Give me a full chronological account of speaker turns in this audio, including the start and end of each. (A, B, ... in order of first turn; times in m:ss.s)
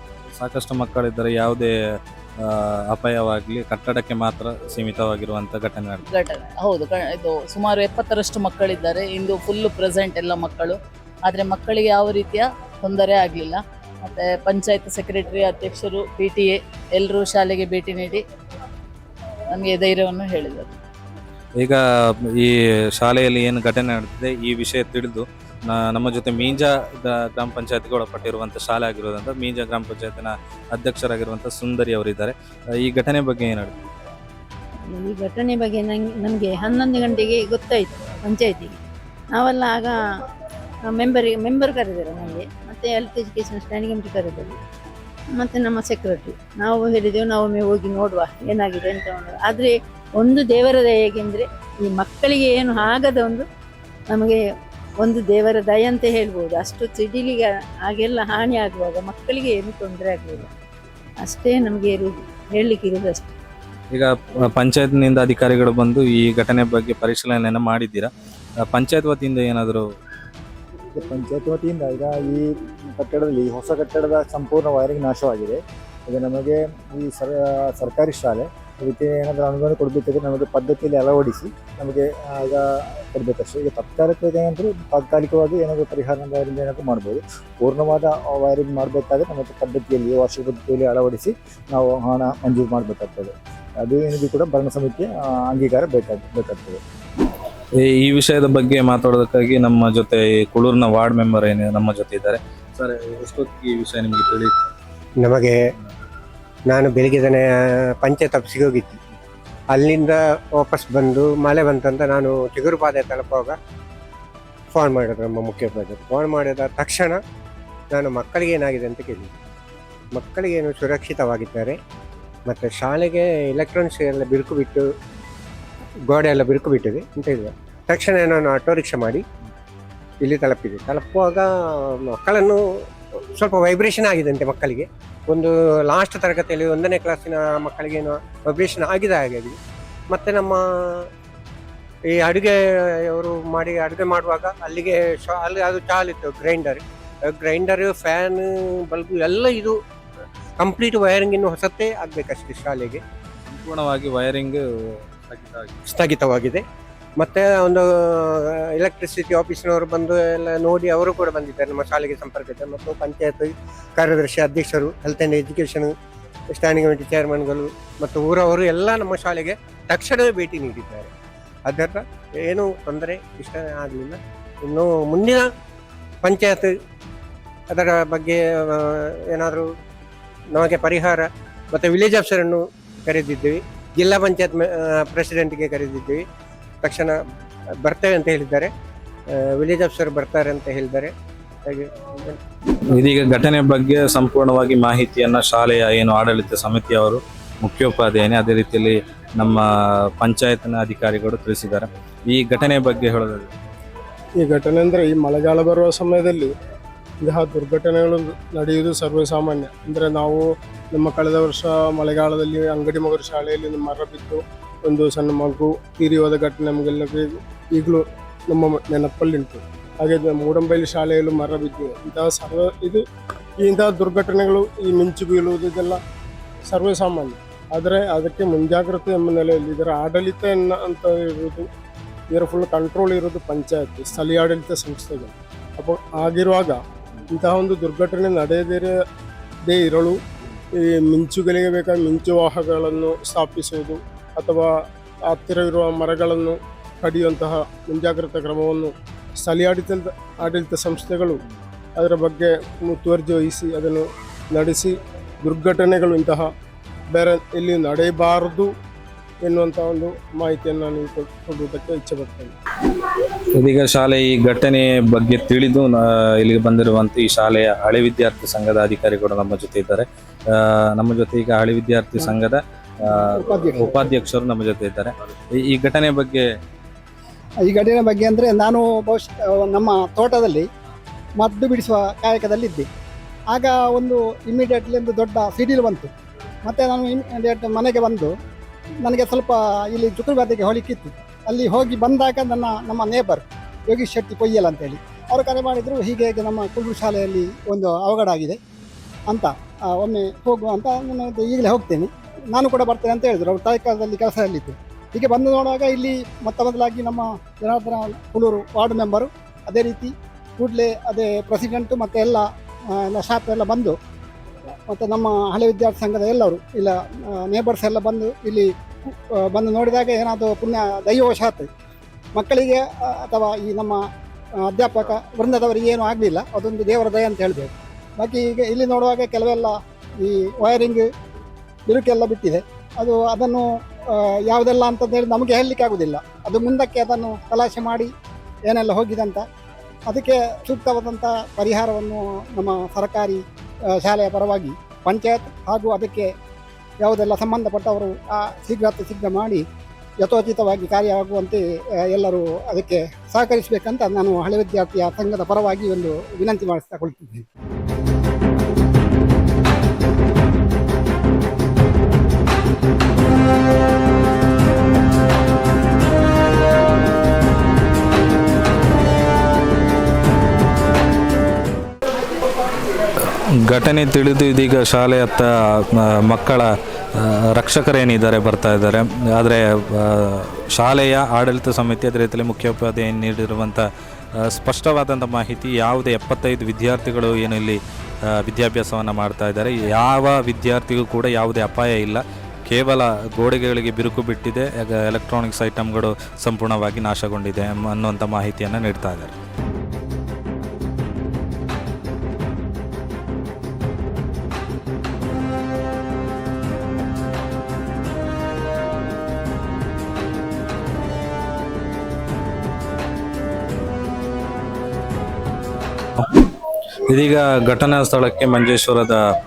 0:00.4-0:06.0 A
0:06.1-0:18.2 B
0:19.6-0:20.8 B
0:22.4-0:33.7 A
0:34.9-0:38.8 C
0:39.3-0:40.0 C
0:40.8-0:44.5 C
0:45.3-0:53.5 C
0:54.1-0:54.4 C
0:55.0-1:00.5 C
1:01.2-1:03.3 C
1:03.9-1:08.1 A
1:08.6-1:09.9 A
1:11.0-1:36.8 D
1:37.8-1:44.6 A
1:45.2-1:45.6 E
1:46.7-1:47.4 E
1:48.0-1:48.9 E
1:49.7-1:53.5 E
1:54.7-1:57.2 E
1:58.0-1:59.3 E
2:00.2-2:01.7 E
2:02.5-2:04.8 E
2:06.1-2:09.2 E
2:10.2-2:11.4 E
2:12.1-2:12.6 E
2:13.4-2:19.6 E
2:20.1-2:20.6 E
2:22.2-2:22.5 E
2:23.1-2:26.8 E
2:27.3-2:29.8 E
2:30.6-2:33.0 E
2:33.5-2:35.8 A
2:35.9-2:36.6 E
2:37.2-2:37.8 E
2:38.8-2:43.5 E
2:44.0-2:45.9 E
2:46.6-2:51.1 E
2:51.7-2:54.2 E
2:54.7-2:55.4 E
2:56.3-2:56.7 E
2:57.7-2:58.4 E
2:59.4-2:59.6 E
3:00.6-3:01.2 E
3:01.8-3:04.6 E
3:05.1-3:06.2 E
3:06.8-3:07.1 E
3:07.9-3:08.7 E
3:09.6-3:11.1 E
3:12.9-3:19.7 A
3:20.2-3:23.5 A
3:24.4-3:26.5 F
3:27.2-3:30.4 F
3:30.9-3:43.0 F
3:43.6-3:46.0 F
3:46.7-3:51.7 F
3:52.3-3:56.8 F
3:57.3-3:58.9 F
3:59.7-4:00.2 F
4:00.8-4:04.7 F
4:05.3-4:11.4 F
4:12.0-4:16.5 F
4:17.1-4:18.7 F
4:19.4-4:22.5 F
4:23.6-4:36.4 A
4:33.1-4:34.0 G
4:37.6-4:40.7 G
4:41.4-4:42.9 G
4:43.5-4:46.1 G
4:46.6-4:48.3 G
4:49.0-4:58.6 G
4:59.3-5:12.5 G
5:13.0-5:14.0 G
5:14.9-5:18.7 G
5:19.5-5:21.7 G
5:22.4-5:24.0 G
5:24.6-5:31.1 G
5:31.9-5:38.1 G
5:38.7-5:39.4 G
5:40.1-5:43.4 G
5:43.9-5:46.3 G
5:47.0-5:49.6 G
5:50.2-5:57.4 G
6:13.7-6:23.9 A
6:24.4-6:27.8 A
6:28.3-6:39.3 A
6:57.1-6:59.2 A